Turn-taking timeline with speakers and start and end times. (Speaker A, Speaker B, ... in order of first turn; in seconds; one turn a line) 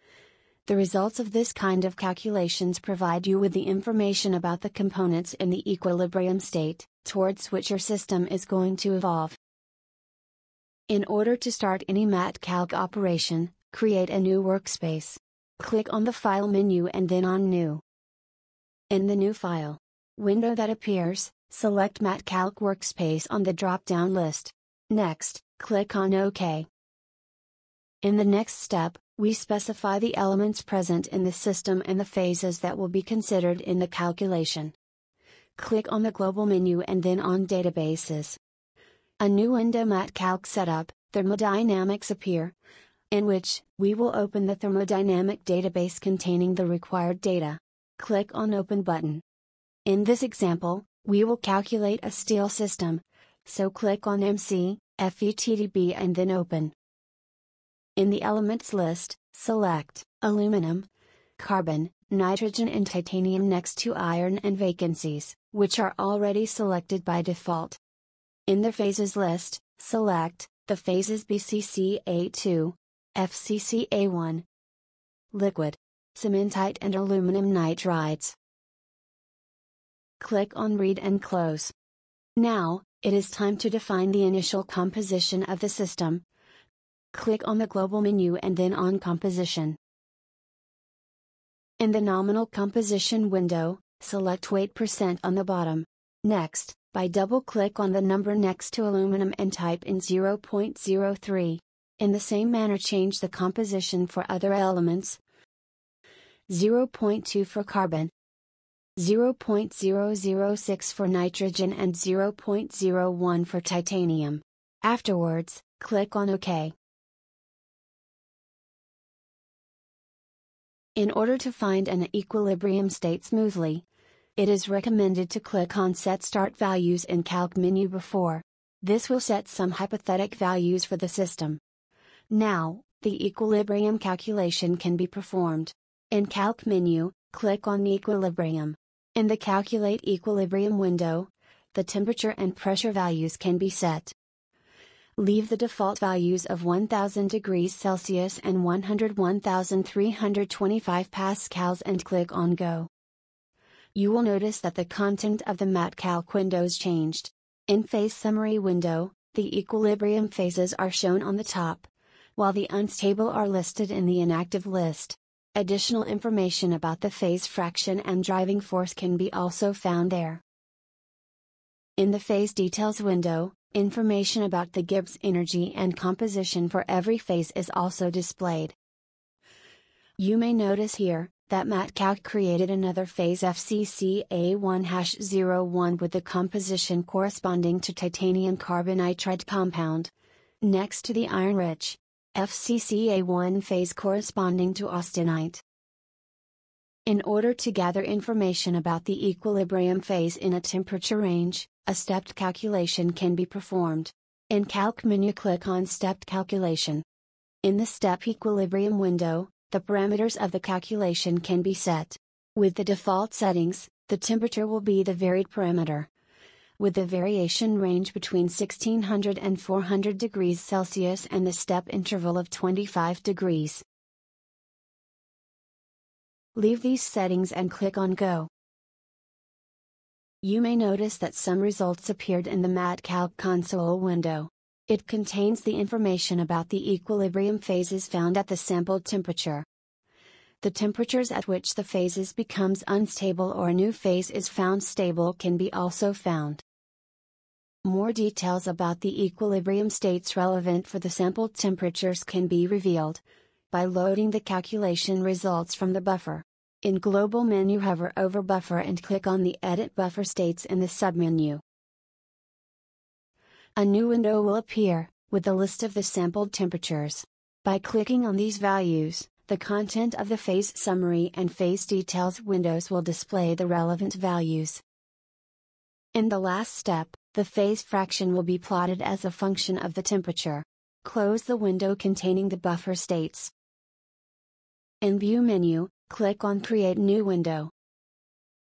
Speaker A: 0.7-9.4
Speaker A: 10.9-17.8
Speaker A: 18.9-26.7
Speaker A: 28.0-34.7
Speaker A: 35.5-38.4
Speaker A: 39.2-42.5
Speaker A: 43.1-49.2
Speaker A: 49.9-56.7
Speaker A: 58.0-67.8
Speaker A: 68.5-74.5
Speaker A: 75.3-78.3
Speaker A: 80.2-81.7
Speaker A: 82.3-86.2
Speaker A: 87.1-89.8
Speaker A: 91.8-105.2
Speaker A: 106.5-108.1
Speaker A: 109.0-116.7
Speaker A: 121.0-123.8
Speaker A: 124.4-131.6
Speaker A: 132.3-144.1
Speaker A: 145.2-152.9
Speaker A: 153.9-170.4
Speaker A: 172.0-178.7
Speaker A: 180.2-195.6
Speaker A: 197.1-207.0
Speaker A: 207.6-216.1
Speaker A: 216.8-223.8
Speaker A: 226.5-228.5
Speaker A: 230.4-239.7
Speaker A: 240.6-246.6
Speaker A: 247.8-261.6
Speaker A: 263.8-274.8
Speaker A: 276.1-283.5
Speaker A: 285.0-287.7